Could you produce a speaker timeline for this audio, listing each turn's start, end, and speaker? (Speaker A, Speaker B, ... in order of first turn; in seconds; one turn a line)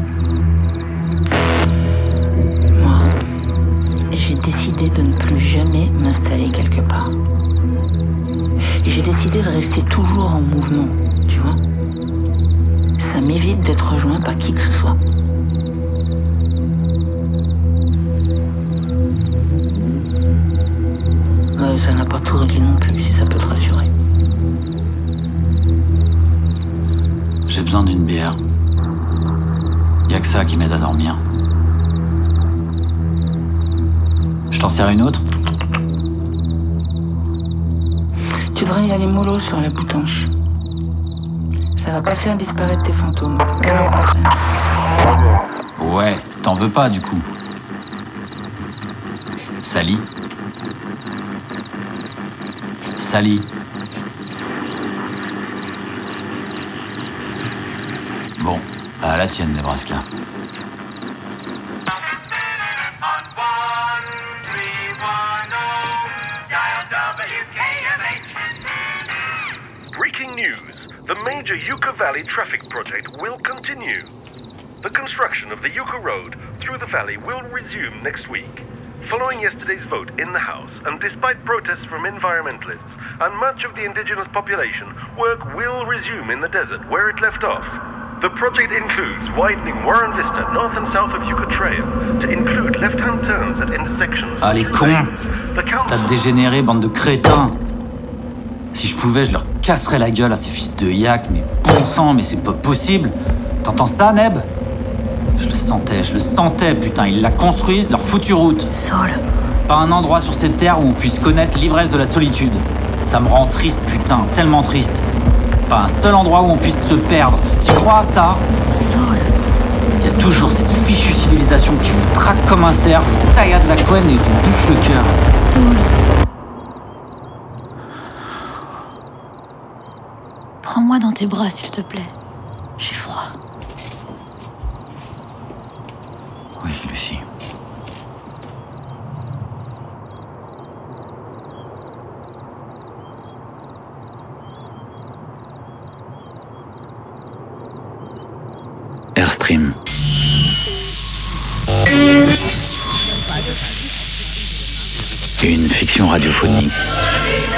Speaker A: 2.7-3.1
Speaker A: 4.1-7.1
Speaker A: 8.8-11.6
Speaker A: 13.0-15.0
Speaker A: 21.6-23.9
Speaker B: 27.5-28.4
Speaker B: 30.1-31.2
Speaker B: 34.5-35.2
Speaker A: 38.5-40.3
Speaker A: 41.8-44.3
Speaker B: 45.8-47.2
Speaker B: 49.6-50.0
Speaker B: 53.0-53.5
Speaker B: 58.4-60.0
Speaker B: 64.3-65.4
Speaker B: 67.0-68.1
Speaker C: 69.9-74.1
Speaker C: 74.8-96.3
Speaker B: 94.4-95.1
Speaker B: 95.8-97.6
Speaker B: 98.7-104.5
Speaker B: 105.4-108.7
Speaker D: 108.7-109.2
Speaker B: 109.7-115.0
Speaker B: 115.7-118.4
Speaker D: 118.7-119.3
Speaker B: 120.0-125.2
Speaker D: 125.3-126.0
Speaker D: 130.6-132.1
Speaker D: 132.8-133.3
Speaker B: 136.6-137.2
Speaker B: 149.2-149.7
Speaker B: 155.4-156.9